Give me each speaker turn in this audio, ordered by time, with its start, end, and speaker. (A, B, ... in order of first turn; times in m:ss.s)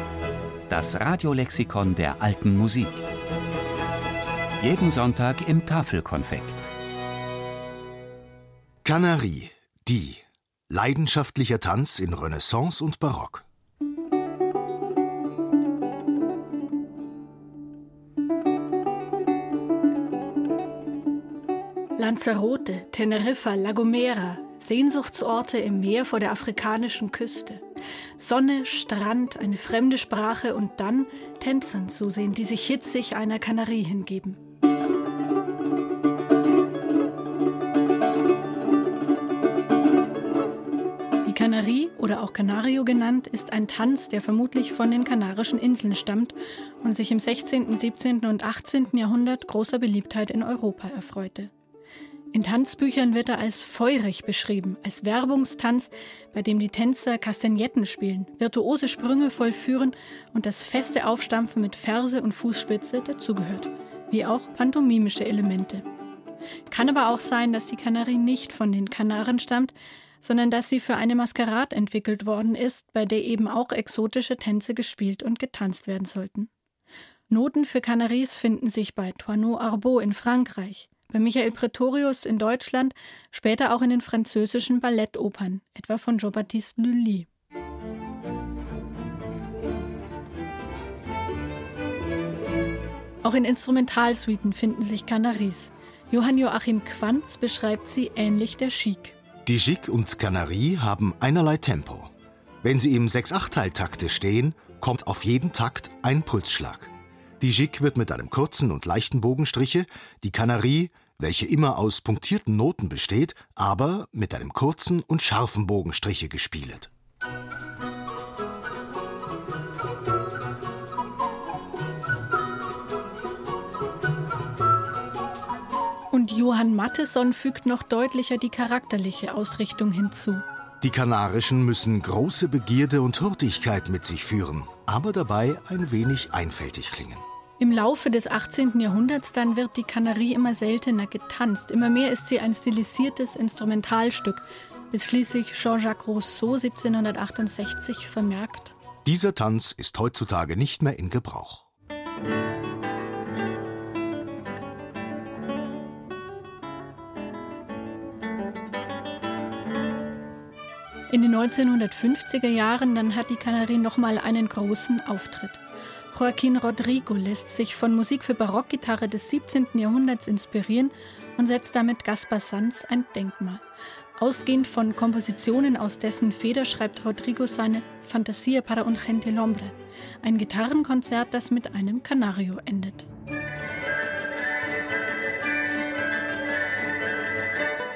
0:00.7-0:03.0 A
0:04.6-0:06.7 A
0:08.8-0:13.4 B
0:22.0-0:27.6 C
0:28.2-0:34.4 C
0:41.2-0:51.5 C
0:52.3-1:05.9 C
1:06.7-1:16.5 C
1:17.3-1:27.3 C
1:33.2-1:39.2 C
1:39.4-1:42.1 B
1:42.6-1:56.9 B
2:06.1-2:10.4 C
2:10.8-2:17.2 B
2:17.6-2:28.8 C
2:29.0-2:31.6 B
2:41.1-2:53.6 C
2:54.2-3:03.1 C